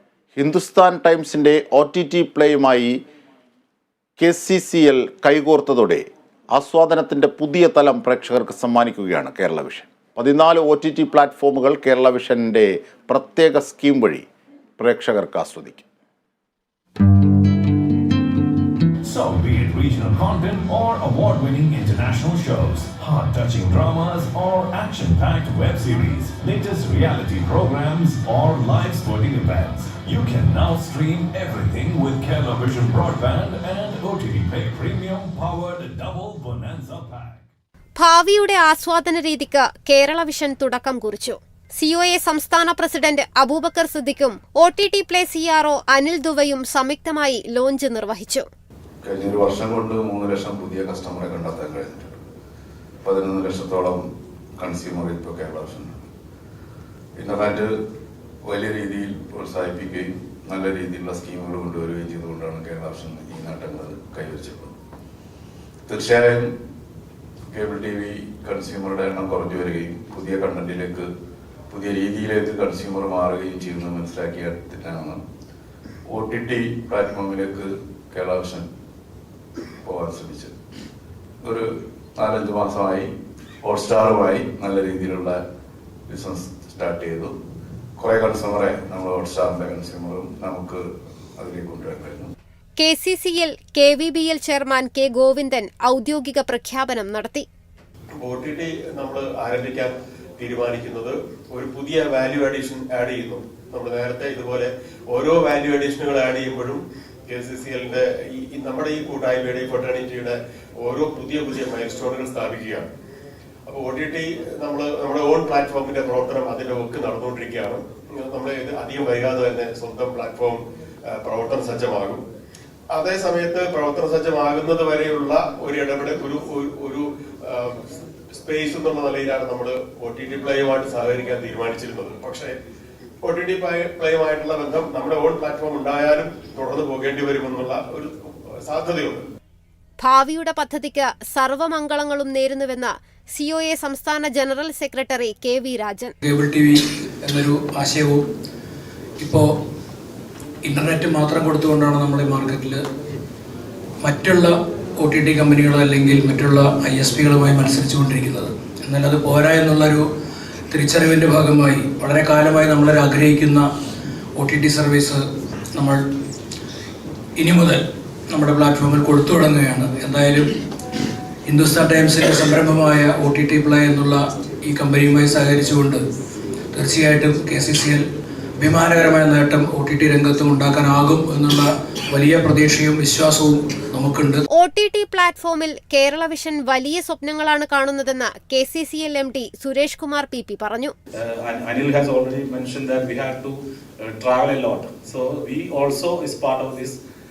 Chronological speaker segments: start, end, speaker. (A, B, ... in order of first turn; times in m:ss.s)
0:00.4-0:03.0 A
0:04.2-0:14.2 A
0:14.8-0:15.8 A
0:19.0-0:37.4 B
0:38.0-0:48.4 C
0:49.0-0:52.2 D
0:53.0-0:54.0 D
0:54.6-0:56.0 D
0:57.2-0:57.7 D
0:58.4-1:04.7 D
1:05.9-1:06.5 D
1:07.5-1:11.1 D
1:11.7-1:15.2 D
1:16.1-1:18.7 D
1:19.8-1:20.5 D
1:21.4-1:23.1 D
1:23.6-1:25.4 D
1:26.1-1:27.3 D
1:28.0-1:30.8 D
1:31.4-1:32.3 D
1:32.8-1:37.5 C
1:38.1-1:52.9 E
1:53.6-2:02.2 E
2:02.9-2:12.6 E
2:13.2-2:19.2 E
2:20.0-2:26.1 C
2:26.2-2:28.2 F
2:29.2-2:29.4 F
2:30.6-2:32.8 F
2:34.0-2:40.0 F
2:40.7-2:43.7 F
2:44.4-2:45.2 F
2:45.7-2:46.0 F
2:47.4-2:50.5 F
2:51.4-2:56.0 F
2:56.7-2:58.0 F
2:58.6-3:04.4 F
3:04.5-3:10.9 C
3:11.1-3:17.0 G